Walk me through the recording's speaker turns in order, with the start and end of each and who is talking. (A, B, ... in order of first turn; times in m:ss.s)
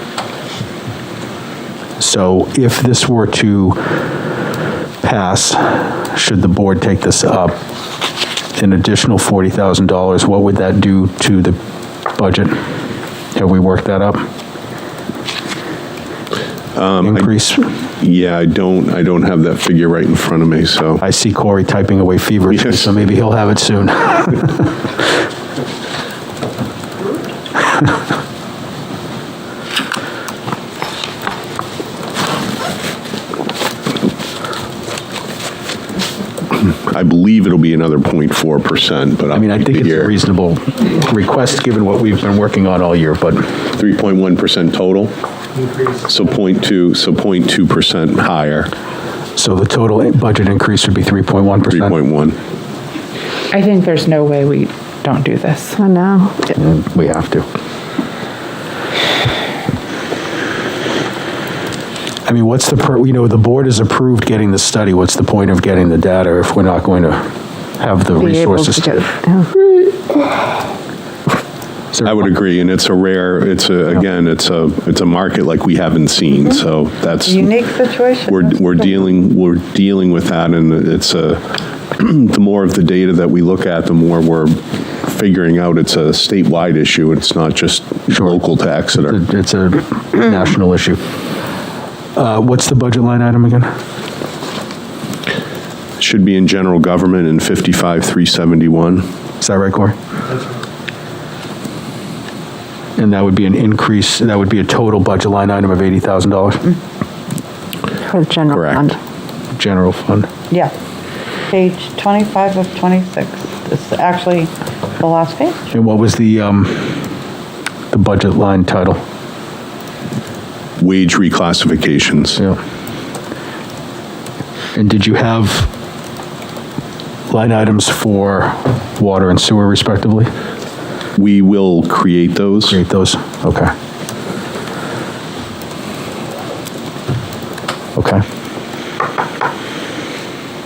0:02.0-0:04.0 A
0:05.0-0:07.6 A
0:08.6-0:11.6 A
0:12.1-0:12.6 A
0:13.3-0:14.3 A
0:16.7-0:17.3 B
0:17.0-0:17.7 A
0:18.0-0:21.0 B
0:21.0-0:24.8 A
0:22.5-0:22.9 B
0:36.5-0:40.1 B
0:39.3-0:43.6 A
0:43.7-0:45.1 B
0:46.0-0:48.7 B
0:49.4-0:52.0 A
0:51.7-0:52.4 B
0:53.5-0:55.8 C
0:55.8-0:56.5 D
0:56.5-0:57.4 A
1:02.2-1:09.1 A
1:08.2-1:09.5 D
1:11.9-1:12.2 A
1:12.0-1:17.6 B
1:17.3-1:18.6 E
1:18.3-1:21.4 B
1:21.9-1:29.2 B
1:28.1-1:28.4 A
1:29.0-1:31.0 A
1:32.1-1:33.7 A
1:36.0-1:39.1 B
1:39.4-1:40.0 A
1:43.0-1:46.7 A
1:48.0-1:49.0 D
1:48.5-1:48.9 B
1:49.5-1:50.3 A
1:51.5-1:55.6 E
1:55.7-1:57.1 A
1:57.9-1:59.0 A
2:00.8-2:02.4 B
2:04.7-2:05.7 A
2:07.3-2:10.3 A
2:11.2-2:12.8 B
2:12.7-2:13.7 A
2:18.0-2:18.2 A